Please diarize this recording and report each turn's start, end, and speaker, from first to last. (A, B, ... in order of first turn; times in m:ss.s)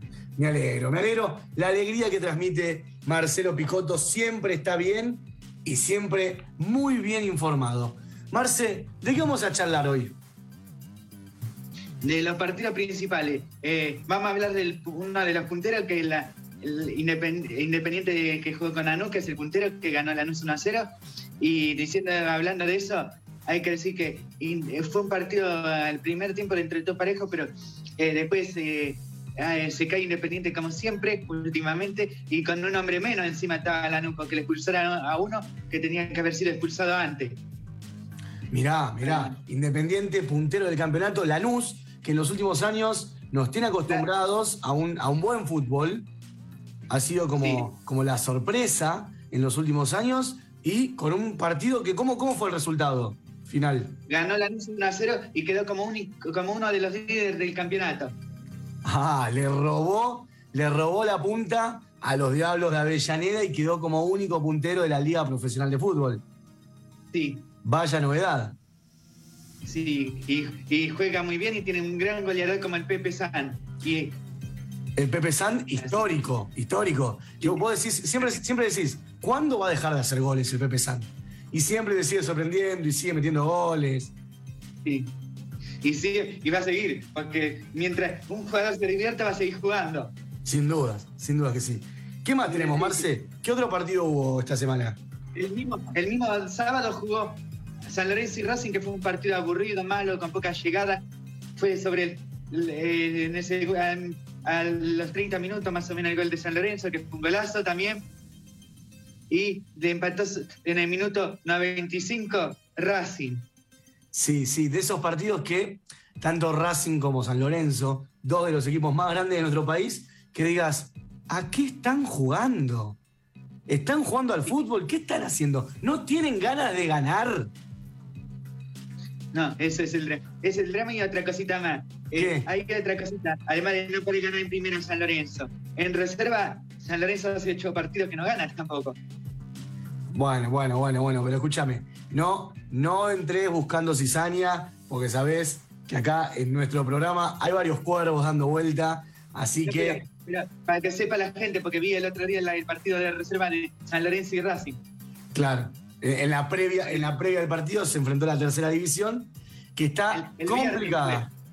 0:00.4-0:10.2 A
0:12.0-0:20.9 B
0:21.4-0:37.4 B
0:38.5-0:46.1 A
0:39.0-0:39.3 B
0:46.9-0:54.0 A
0:47.4-0:47.6 B
0:54.1-0:58.1 B
0:58.8-1:06.2 A
1:07.1-1:07.4 B
1:07.6-1:08.6 A
1:09.6-1:14.2 B
1:15.0-1:24.1 A
1:15.8-1:16.1 B
1:24.8-1:25.1 B
1:25.8-1:30.1 B
1:30.4-1:35.0 A
1:32.4-1:33.0 B
1:35.3-1:41.0 B
1:41.6-1:48.0 B
1:49.3-1:53.4 B
1:54.1-2:03.0 A
2:03.7-2:07.5 A
2:09.3-2:19.0 B
2:12.1-2:12.5 A
2:20.1-2:30.0 A
2:29.6-2:34.8 B
2:35.3-2:41.3 A
2:40.1-2:41.3 B